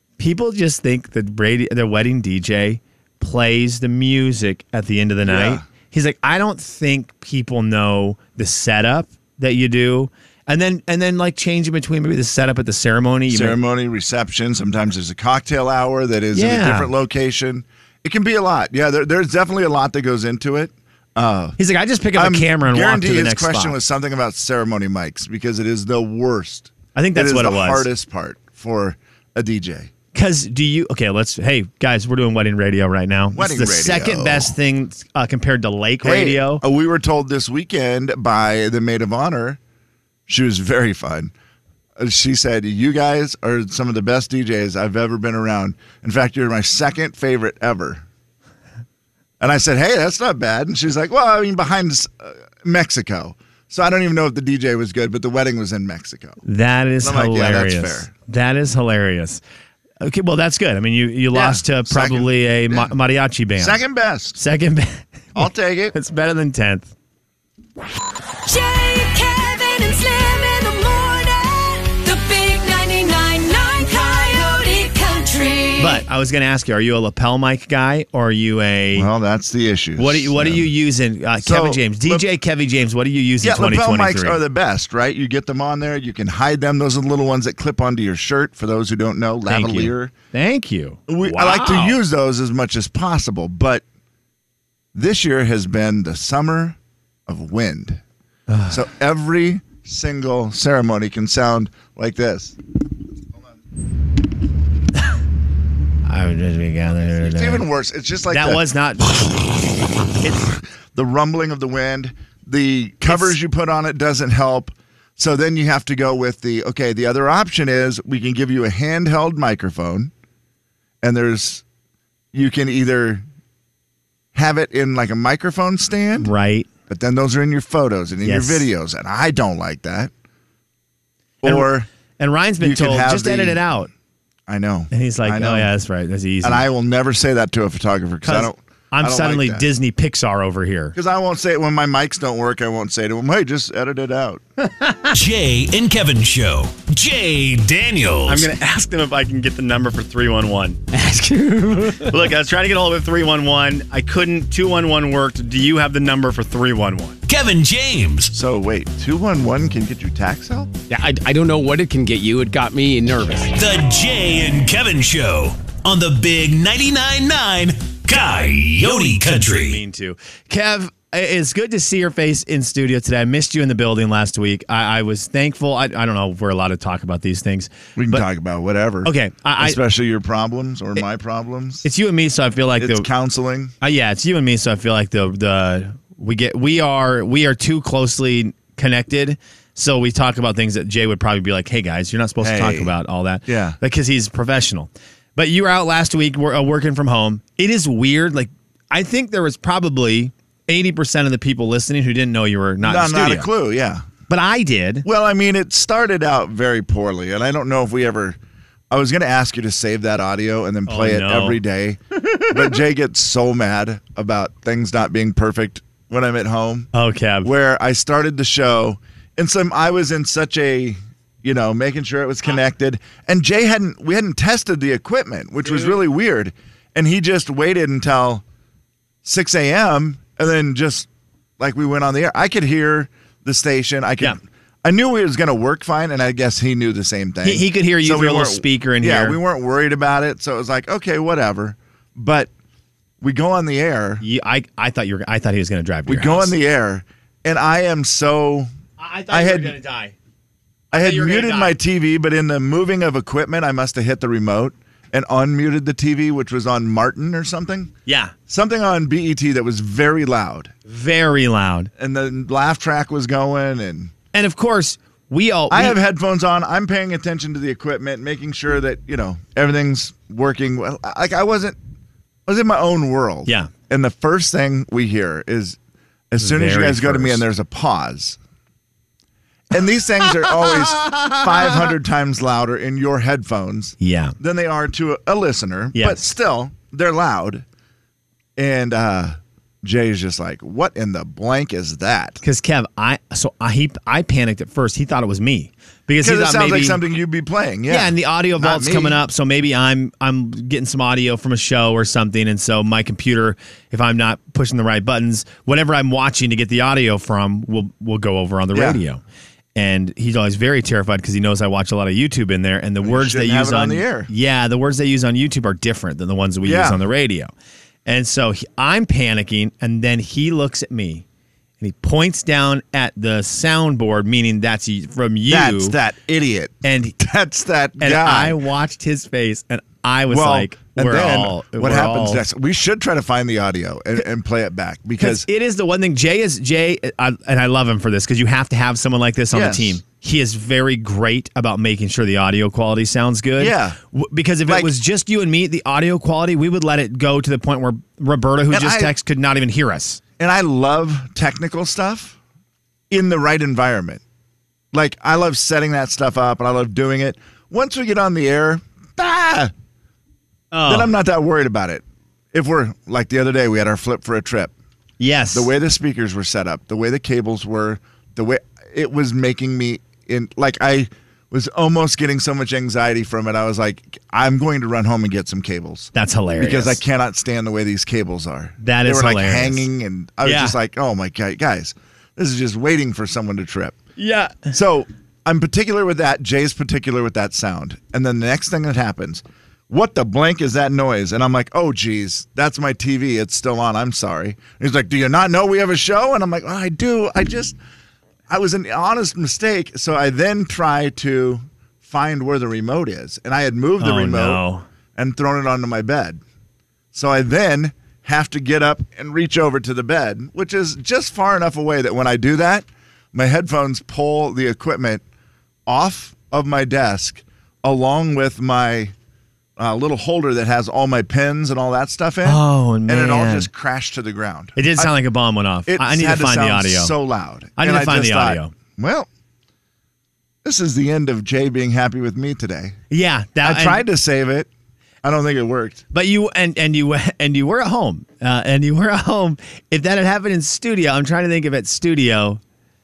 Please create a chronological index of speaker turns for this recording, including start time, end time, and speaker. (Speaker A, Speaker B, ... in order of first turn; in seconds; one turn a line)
Speaker A: 0.2-13.6
Speaker B: 5.3-5.7
Speaker B: 13.3-21.6
Speaker A: 16.3-16.9
Speaker A: 21.6-23.8
Speaker B: 22.1-29.9
Speaker A: 26.9-27.9
Speaker A: 30.1-36.6
Speaker B: 33.3-34.5
Speaker B: 36.0-39.6
Speaker B: 40.3-41.3
Speaker B: 42.0-48.0
Speaker B: 49.4-56.4
Speaker A: 56.4-59.4
Speaker B: 57.0-58.1
Speaker A: 60.0-63.8
Speaker B: 61.3-62.9
Speaker B: 63.6-64.4
Speaker A: 64.3-66.9
Speaker B: 65.3-66.0
Speaker C: 68.5-76.0
Speaker A: 75.8-79.1
Speaker B: 79.0-80.7
Speaker A: 80.0-84.4
Speaker B: 81.4-82.3
Speaker B: 83.4-90.1
Speaker A: 89.5-92.0
Speaker B: 91.1-93.8
Speaker B: 94.9-98.0
Speaker A: 98.5-98.8
Speaker B: 98.7-102.6
Speaker A: 106.1-107.7
Speaker B: 107.2-108.7
Speaker A: 108.3-109.4
Speaker B: 110.2-120.1
Speaker A: 113.1-113.3
Speaker B: 121.0-121.6
Speaker B: 122.3-123.2
Speaker B: 124.3-126.3
Speaker A: 126.2-126.7
Speaker B: 126.9-130.1
Speaker A: 128.2-128.7
Speaker B: 131.4-131.9
Speaker A: 131.4-133.9
Speaker B: 132.6-133.7
Speaker B: 134.5-135.7
Speaker A: 134.9-136.7
Speaker B: 136.4-139.7
Speaker A: 138.2-141.0
Speaker B: 140.9-144.4
Speaker A: 144.6-145.1
Speaker D: 145.1-148.5
Speaker A: 148.3-151.0
Speaker E: 150.9-152.2
Speaker A: 151.9-157.2
Speaker D: 157.3-158.3
Speaker B: 158.3-160.7
Speaker E: 160.9-163.5
Speaker D: 163.5-169.8
Speaker A: 169.6-178.2
Speaker B: 178.0-181.8
Speaker A: 179.0-179.8
Speaker A: 181.8-183.1
Speaker B: 182.8-183.7
Speaker A: 183.8-203.5
Speaker B: 192.4-192.9
Speaker B: 193.5-193.8
Speaker B: 202.8-204.1
Speaker A: 204.3-205.1
Speaker B: 205.1-208.4
Speaker B: 208.9-216.9
Speaker A: 210.9-211.6
Speaker A: 216.9-217.5
Speaker B: 217.4-228.4
Speaker A: 225.6-226.0
Speaker B: 229.2-231.1
Speaker B: 231.6-242.5
Speaker A: 237.4-239.4
Speaker B: 243.2-244.2
Speaker A: 244.2-246.5
Speaker B: 246.1-248.7
Speaker A: 249.0-250.1
Speaker B: 249.3-249.8
Speaker A: 250.9-251.8
Speaker B: 250.9-257.9
Speaker A: 258.1-258.3
Speaker B: 258.5-260.7
Speaker A: 260.9-261.9
Speaker B: 262.0-264.1
Speaker A: 264.3-266.0
Speaker B: 265.7-271.8
Speaker B: 272.5-275.8
Speaker B: 276.3-278.4
Speaker A: 276.4-277.4
Speaker B: 279.7-287.6
Speaker A: 280.2-281.9
Speaker A: 284.0-284.4
Speaker A: 285.9-286.3
Speaker B: 288.6-292.4
Speaker A: 292.4-297.0
Speaker B: 296.2-299.2
Speaker A: 297.9-309.2
Speaker B: 308.7-309.0
Speaker A: 309.8-317.5
Speaker B: 313.0-314.3
Speaker B: 316.6-317.0
Speaker A: 318.1-321.2
Speaker A: 321.8-326.0
Speaker B: 325.5-328.6
Speaker A: 326.8-327.2
Speaker A: 328.0-332.4
Speaker B: 330.3-335.5
Speaker A: 335.2-350.2
Speaker B: 339.5-340.0
Speaker B: 343.6-344.0
Speaker B: 344.7-344.9
Speaker B: 348.7-349.1
Speaker B: 350.4-352.4
Speaker B: 353.1-354.2
Speaker B: 354.9-359.7
Speaker A: 360.7-361.1
Speaker B: 360.9-364.7
Speaker A: 365.2-365.7
Speaker B: 365.5-384.0
Speaker A: 376.1-377.0
Speaker A: 378.8-379.9
Speaker A: 380.4-380.8
Speaker A: 384.2-384.7
Speaker B: 384.7-397.8
Speaker B: 398.5-404.6
Speaker A: 404.0-404.8
Speaker B: 405.2-406.4
Speaker B: 407.1-415.2
Speaker B: 415.9-419.1
Speaker B: 419.8-425.1
Speaker A: 422.4-423.7
Speaker A: 424.8-427.1
Speaker B: 425.9-429.3
Speaker A: 427.8-428.7
Speaker B: 430.6-433.0
Speaker A: 433.1-434.1
Speaker B: 433.6-434.7
Speaker B: 435.2-436.0
Speaker A: 436.1-442.6